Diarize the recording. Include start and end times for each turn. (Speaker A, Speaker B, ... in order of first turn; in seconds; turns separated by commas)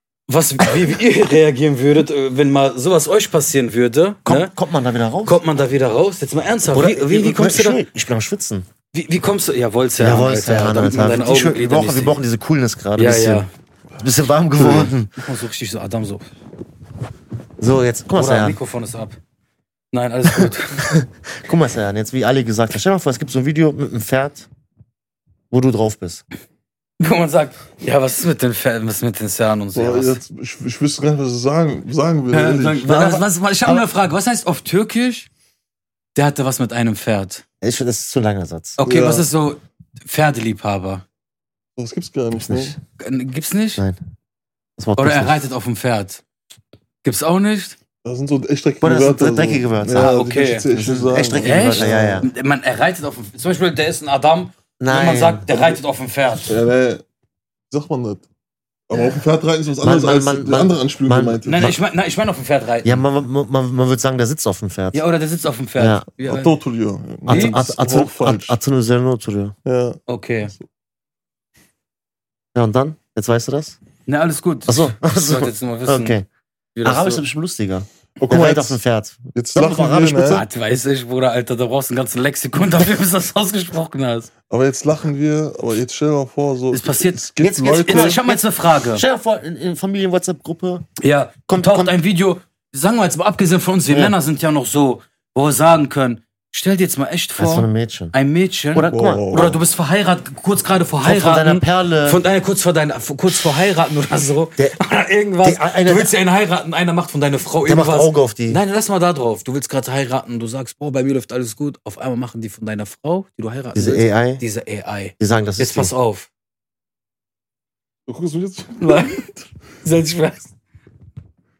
Speaker A: 0.3-4.5, Speaker B: 4.2-5.4, Speaker A: 5.2-7.8, Speaker B: 6.7-8.7, Speaker A: 8.9-12.2, Speaker B: 10.0-13.4, Speaker A: 12.9-13.5, Speaker B: 14.0-15.1, Speaker A: 14.7-16.2, Speaker B: 17.6-18.6, Speaker A: 18.1-19.2, Speaker A: 19.9-20.9, Speaker B: 20.4-24.5, Speaker B: 25.5-26.2, Speaker A: 27.0-30.2, Speaker C: 29.7-32.9, Speaker A: 32.3-35.3, Speaker B: 32.9-33.9, Speaker A: 36.1-37.4, Speaker B: 37.6-38.8, Speaker A: 38.8-41.0, Speaker C: 38.8-39.3, Speaker C: 41.8-42.7, Speaker B: 42.4-42.8, Speaker A: 43.0-43.8, Speaker B: 44.8-45.4, Speaker A: 45.0-46.2, Speaker A: 47.0-47.8, Speaker C: 48.0-52.3, Speaker B: 48.8-50.1, Speaker A: 50.0-50.6, Speaker B: 50.7-52.3, Speaker A: 51.4-56.5, Speaker B: 54.8-55.4, Speaker C: 56.5-57.0, Speaker C: 57.7-58.2, Speaker C: 58.9-61.7, Speaker B: 59.8-61.8, Speaker A: 61.5-63.0, Speaker B: 62.8-65.0, Speaker A: 64.9-66.5, Speaker B: 65.8-66.0, Speaker C: 66.2-68.5, Speaker B: 67.2-69.5, Speaker A: 67.3-67.6, Speaker C: 69.7-70.0, Speaker A: 70.1-70.5, Speaker B: 72.5-73.8, Speaker A: 74.1-76.2, Speaker B: 74.7-76.2, Speaker A: 76.8-77.2, Speaker B: 76.8-80.4, Speaker C: 78.2-78.8, Speaker C: 79.3-80.4, Speaker A: 80.3-84.3, Speaker C: 84.5-88.2, Speaker A: 86.7-87.3, Speaker B: 87.4-90.8, Speaker A: 87.8-89.0, Speaker A: 91.0-116.3, Speaker B: 91.5-92.0, Speaker B: 93.9-94.2, Speaker B: 97.4-98.1, Speaker B: 98.7-99.6, Speaker C: 98.9-99.5, Speaker B: 101.0-102.2, Speaker B: 105.4-106.1, Speaker B: 107.7-108.6, Speaker B: 113.7-114.4, Speaker B: 115.2-115.9, Speaker C: 118.1-119.3, Speaker A: 118.8-119.2, Speaker A: 119.8-120.5